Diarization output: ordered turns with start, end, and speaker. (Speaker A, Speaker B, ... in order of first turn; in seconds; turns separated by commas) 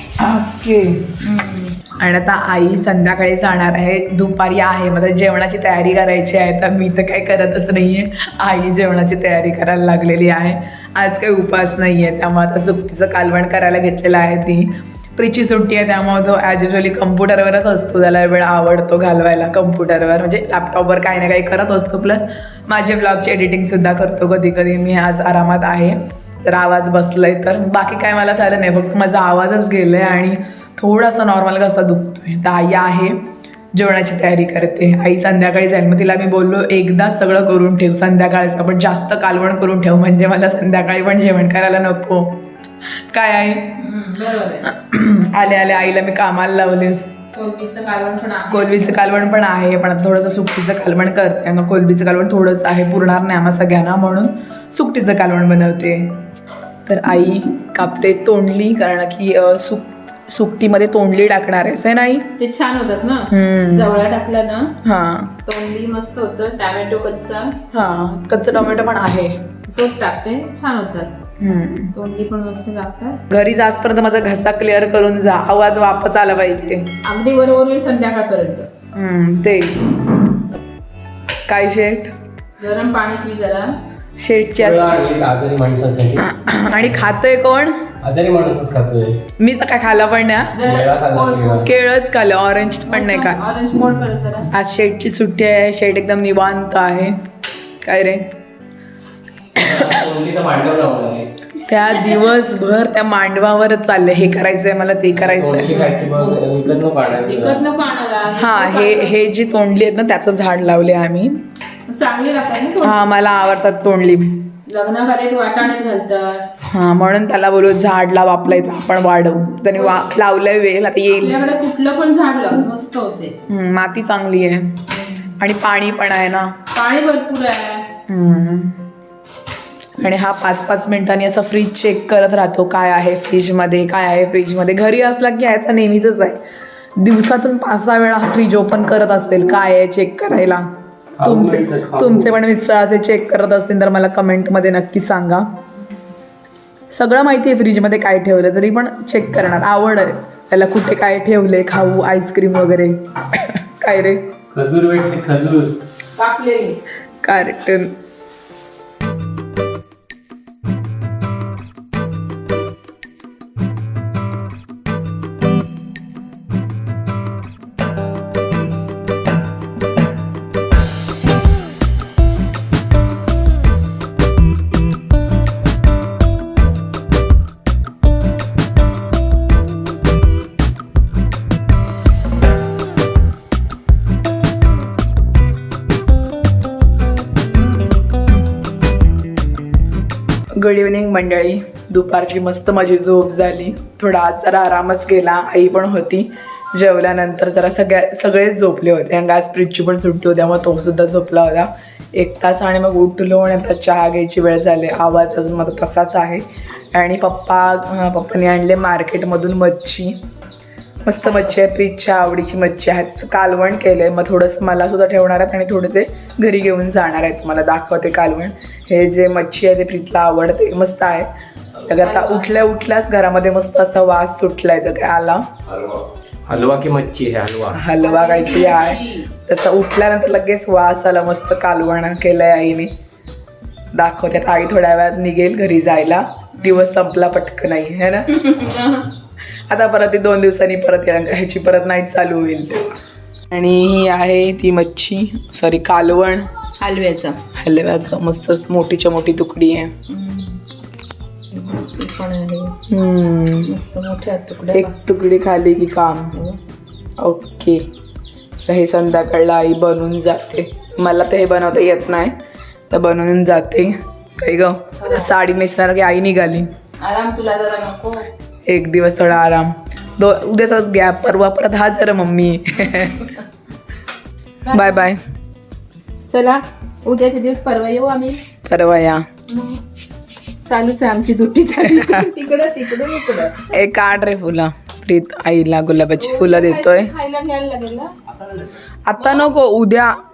Speaker A: 0.2-1.2, Speaker B: 1.3-1.6, Speaker A: 1.7-33.2, Speaker A: 33.7-42.5, Speaker A: 43.1-43.8, Speaker B: 43.8-44.7, Speaker A: 44.7-47.0, Speaker B: 47.3-48.8, Speaker A: 48.5-56.2, Speaker A: 56.9-62.3, Speaker B: 62.4-64.7, Speaker A: 63.3-63.9, Speaker A: 64.8-65.4, Speaker B: 65.5-67.6, Speaker A: 67.7-69.3, Speaker B: 69.7-71.1, Speaker A: 71.4-71.9, Speaker B: 71.9-73.2, Speaker A: 73.3-76.9, Speaker B: 77.0-78.7, Speaker A: 79.0-80.0, Speaker A: 81.5-82.1, Speaker B: 82.6-83.8, Speaker A: 84.2-85.0, Speaker C: 84.5-86.8, Speaker A: 86.2-87.8, Speaker C: 88.0-89.2, Speaker A: 89.4-90.6, Speaker B: 90.5-91.7, Speaker C: 90.6-91.7, Speaker A: 91.6-93.4, Speaker B: 92.9-94.5, Speaker A: 94.5-97.2, Speaker A: 97.8-98.3, Speaker C: 99.5-101.3, Speaker A: 99.6-100.0, Speaker A: 101.7-105.9, Speaker B: 101.9-102.3, Speaker C: 105.2-107.6, Speaker B: 105.9-109.2, Speaker A: 108.3-111.4, Speaker B: 111.9-113.0, Speaker A: 112.8-114.5, Speaker B: 114.7-116.5, Speaker A: 116.7-121.4, Speaker B: 119.7-120.1, Speaker B: 121.1-123.3, Speaker A: 123.5-124.8, Speaker B: 124.9-125.3, Speaker A: 125.4-126.5, Speaker B: 126.7-127.9, Speaker A: 128.1-128.8, Speaker A: 130.0-136.4, Speaker A: 137.0-140.7, Speaker C: 141.2-142.3, Speaker A: 141.2-145.4, Speaker A: 146.9-154.2, Speaker C: 154.5-155.7, Speaker B: 156.2-156.8, Speaker A: 157.2-157.9, Speaker A: 190.6-210.2, Speaker A: 211.1-221.3, Speaker B: 211.2-211.5, Speaker A: 221.8-225.4, Speaker B: 222.0-222.5, Speaker C: 226.5-227.8, Speaker A: 227.7-232.9, Speaker B: 228.0-229.3, Speaker A: 233.9-238.4, Speaker B: 238.3-239.1, Speaker A: 239.7-242.9, Speaker A: 243.5-246.5, Speaker B: 246.8-247.4, Speaker A: 247.5-250.0, Speaker B: 250.1-250.6, Speaker B: 251.5-252.8, Speaker A: 252.9-253.7, Speaker B: 253.7-254.9, Speaker A: 254.7-256.5, Speaker A: 257.2-257.9, Speaker A: 258.6-262.4, Speaker A: 262.9-266.7, Speaker B: 265.0-265.3, Speaker B: 267.0-268.3, Speaker A: 268.7-273.3, Speaker B: 274.6-275.1, Speaker A: 274.7-275.2, Speaker B: 276.3-278.4, Speaker A: 278.7-279.2, Speaker B: 279.5-279.8, Speaker B: 280.6-283.8, Speaker A: 283.7-287.1, Speaker B: 286.2-288.1, Speaker A: 289.1-290.2, Speaker B: 289.2-289.5